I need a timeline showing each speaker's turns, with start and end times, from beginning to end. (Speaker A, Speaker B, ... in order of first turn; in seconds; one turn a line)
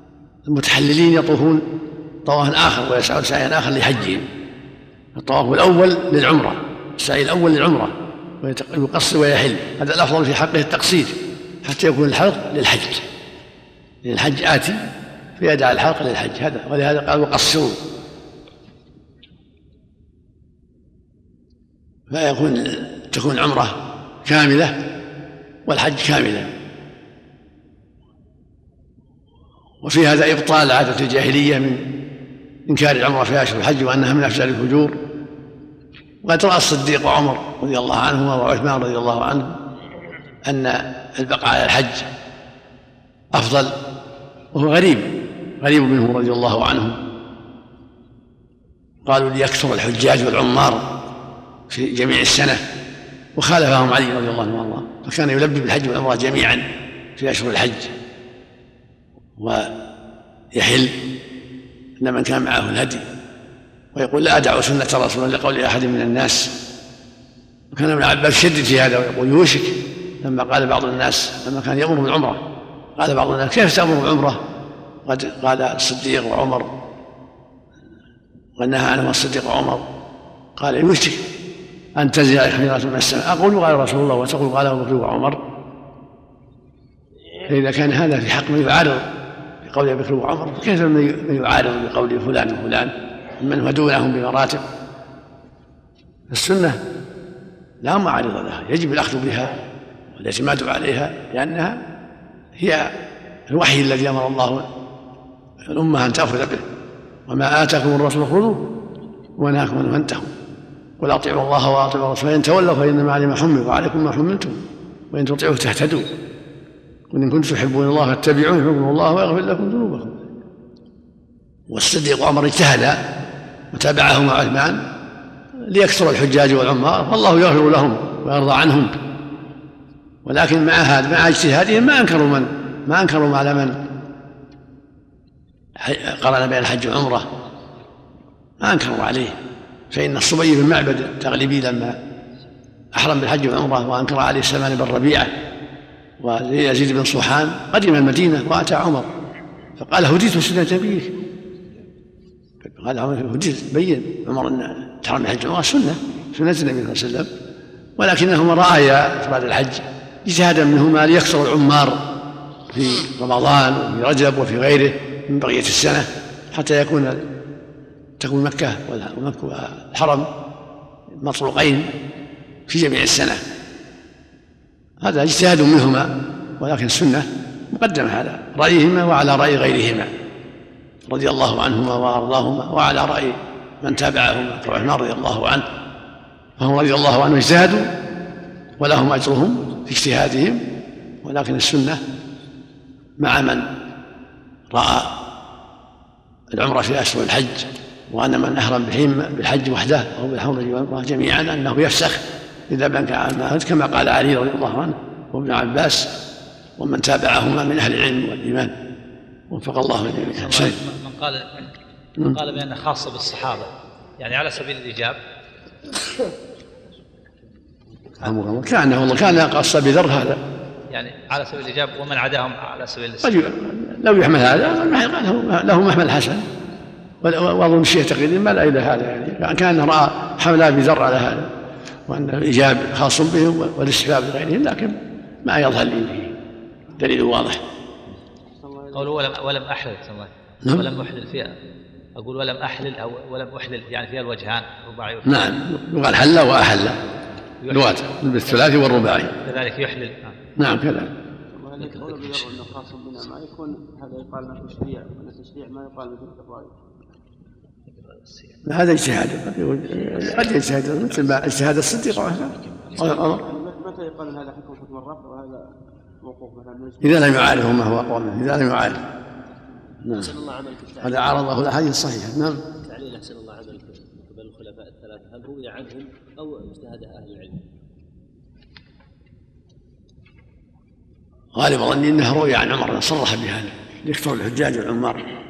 Speaker A: 0.5-1.6
Speaker A: 2.2-4.3
Speaker A: 5.1-13.1
Speaker A: 14.0-14.8
Speaker A: 15.4-17.8
Speaker A: 22.1-24.8
Speaker A: 25.6-26.5
Speaker A: 29.8-31.9
Speaker A: 32.7-35.0
Speaker A: 36.2-39.6
Speaker A: 40.4-42.1
Speaker A: 43.3-43.7
Speaker A: 44.5-47.0
Speaker A: 49.0-50.9
Speaker A: 51.7-52.6
Speaker A: 53.3-57.9
Speaker A: 59.4-59.7
Speaker A: 60.5-61.0
Speaker A: 62.0-63.1
Speaker A: 63.9-66.5
Speaker A: 67.7-72.4
Speaker A: 73.0-74.4
Speaker A: 75.0-76.8
Speaker A: 78.6-79.9
Speaker A: 80.6-81.3
Speaker A: 82.0-85.4
Speaker A: 87.5-89.1
Speaker A: 89.6-94.7
Speaker A: 96.3-96.8
Speaker A: 97.8-101.8
Speaker A: 102.5-102.9
Speaker A: 103.5-104.7
Speaker A: 105.6-106.7
Speaker A: 107.3-108.7
Speaker A: 109.4-110.3
Speaker A: 111.0-114.6
Speaker A: 115.1-116.1
Speaker A: 117.1-120.2
Speaker A: 121.7-123.0
Speaker A: 123.7-124.8
Speaker A: 125.6-128.9
Speaker A: 130.2-133.8
Speaker A: 135.8-137.3
Speaker A: 138.6-139.4
Speaker A: 139.9-142.0
Speaker A: 142.9-145.3
Speaker A: 146.2-149.1
Speaker A: 149.8-151.1
Speaker A: 152.6-157.3
Speaker A: 158.0-162.0
Speaker A: 162.7-167.3
Speaker A: 168.2-170.3
Speaker A: 171.2-171.9
Speaker A: 172.7-173.4
Speaker A: 175.0-180.1
Speaker A: 181.1-185.7
Speaker A: 186.6-187.9
Speaker A: 188.8-190.6
Speaker A: 191.2-192.0
Speaker A: 193.2-193.7
Speaker A: 194.7-195.2
Speaker A: 196.5-206.1
Speaker A: 206.8-208.7
Speaker A: 209.5-210.8
Speaker B: 210.1-211.7
Speaker B: 212.3-215.2
Speaker A: 218.2-220.4
Speaker B: 220.9-223.4
Speaker A: 223.2-226.4
Speaker A: 227.2-231.5
Speaker A: 232.1-236.3
Speaker A: 236.9-237.6
Speaker C: 238.6-239.1
Speaker B: 238.9-241.5
Speaker B: 242.2-245.4
Speaker A: 245.2-247.0
Speaker B: 247.6-248.8
Speaker A: 247.7-249.3
Speaker B: 249.4-250.3
Speaker A: 250.6-251.1
Speaker C: 251.5-256.7
Speaker B: 258.0-258.5
Speaker A: 258.6-263.4
Speaker C: 263.0-265.7
Speaker C: 266.2-267.5
Speaker A: 267.0-269.0
Speaker A: 270.0-270.3
Speaker D: 270.1-271.4
Speaker A: 271.0-272.6
Speaker D: 272.7-277.6
Speaker A: 281.5-285.3